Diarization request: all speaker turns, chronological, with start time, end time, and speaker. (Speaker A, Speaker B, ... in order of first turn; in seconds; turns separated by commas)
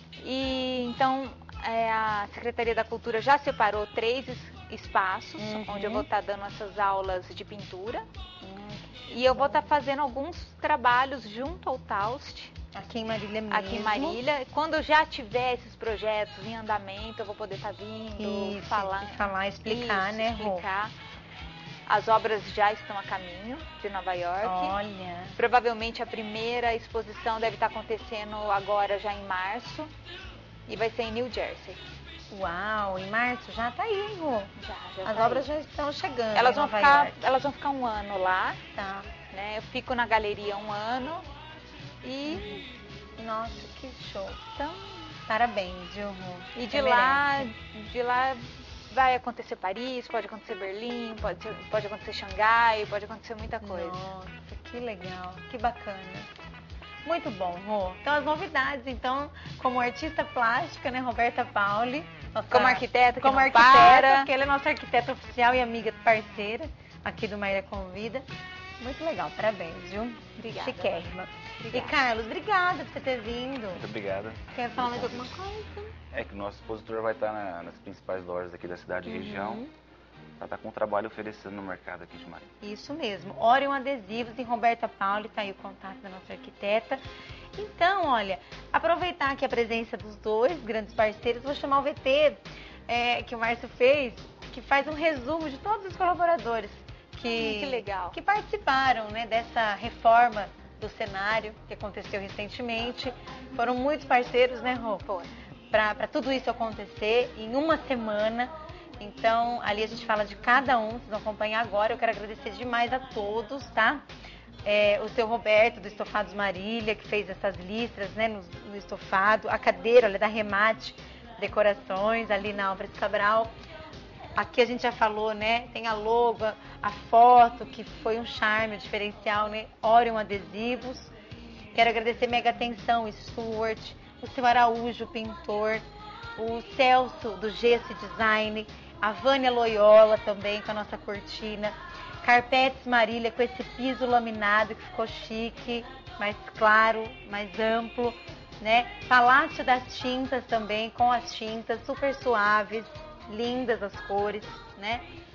Speaker A: 0.2-8.1, Speaker B: 5.4-6.1, Speaker B: 8.4-9.7, Speaker A: 9.1-12.5, Speaker B: 12.7-14.2, Speaker A: 13.5-20.9, Speaker B: 18.2-20.7, Speaker A: 21.9-24.8, Speaker B: 24.4-25.4, Speaker A: 25.4-29.9, Speaker A: 30.7-31.8, Speaker B: 32.3-37.2, Speaker A: 34.6-35.5, Speaker A: 36.3-38.6, Speaker B: 38.7-39.1, Speaker A: 39.3-41.2, Speaker A: 42.0-42.6, Speaker B: 42.3-42.6, Speaker B: 43.2-44.5, Speaker A: 44.6-45.1, Speaker B: 45.3-47.5, Speaker A: 46.5-54.0, Speaker B: 53.6-56.3, Speaker B: 57.0-68.2, Speaker A: 62.5-64.3, Speaker B: 68.8-73.8, Speaker A: 70.3-71.1, Speaker A: 71.6-72.0, Speaker C: 73.7-75.4, Speaker B: 74.5-75.9, Speaker C: 76.1-79.6, Speaker B: 79.0-79.7, Speaker C: 80.4-82.5, Speaker B: 82.6-87.0, Speaker B: 87.5-105.0, Speaker A: 97.3-98.2, Speaker A: 105.0-105.3, Speaker B: 105.7-114.0, Speaker B: 114.6-123.5, Speaker B: 124.3-131.1, Speaker B: 131.7-135.8, Speaker B: 136.4-155.1